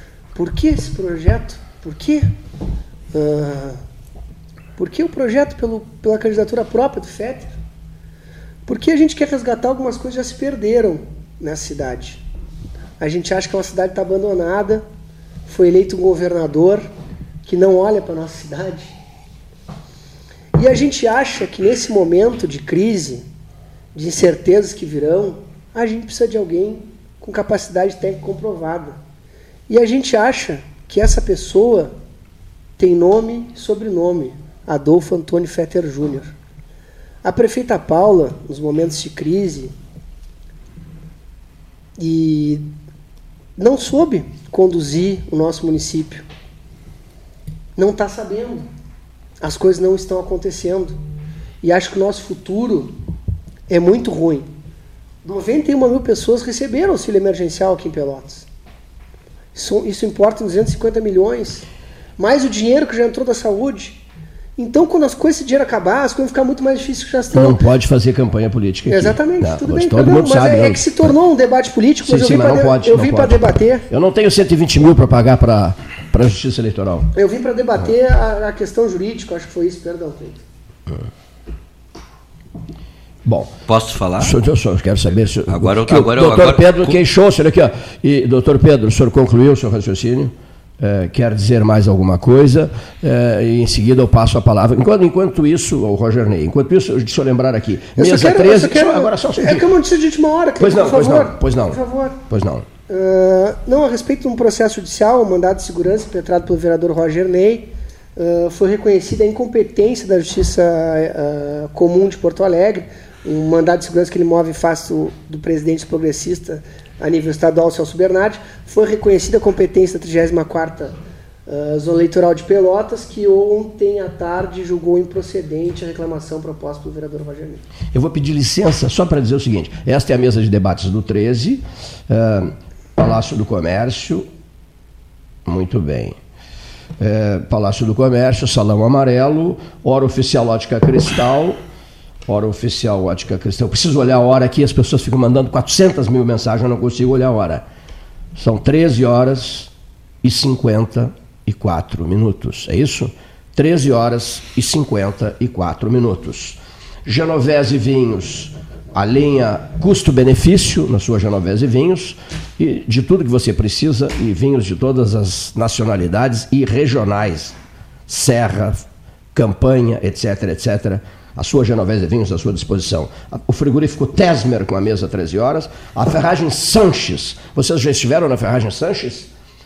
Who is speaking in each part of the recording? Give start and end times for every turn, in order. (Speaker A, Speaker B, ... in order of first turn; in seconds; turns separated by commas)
Speaker A: 0.3-2.3, Speaker A: 3.1-3.8, Speaker A: 4.8-7.5, Speaker A: 8.7-12.2, Speaker A: 13.0-14.8, Speaker A: 15.5-16.9, Speaker A: 17.4-18.9, Speaker A: 20.5-23.2, Speaker A: 23.9-29.0, Speaker A: 29.7-31.9, Speaker A: 32.8-36.3, Speaker A: 37.2-39.7, Speaker A: 42.0-42.7, Speaker A: 43.6-46.2, Speaker A: 47.8-48.7, Speaker A: 49.4-51.0, Speaker A: 51.6-52.9, Speaker A: 53.7-54.5, Speaker A: 55.2-58.5, Speaker A: 59.5-61.6, Speaker A: 62.2-64.0, Speaker A: 64.6-67.6, Speaker B: 67.3-71.1, Speaker A: 68.9-73.8, Speaker B: 72.0-77.1, Speaker A: 77.1-80.4, Speaker B: 83.2-83.5, Speaker C: 83.7-84.3, Speaker B: 84.2-99.7, Speaker C: 85.5-87.0, Speaker A: 98.0-102.2, Speaker B: 100.6-102.7, Speaker A: 102.9-120.9, Speaker A: 121.5-127.6, Speaker B: 127.9-134.2, Speaker B: 135.4-136.2, Speaker B: 137.0-141.6, Speaker B: 142.3-147.6, Speaker B: 148.3-149.7, Speaker B: 150.2-167.6, Speaker B: 168.1-179.3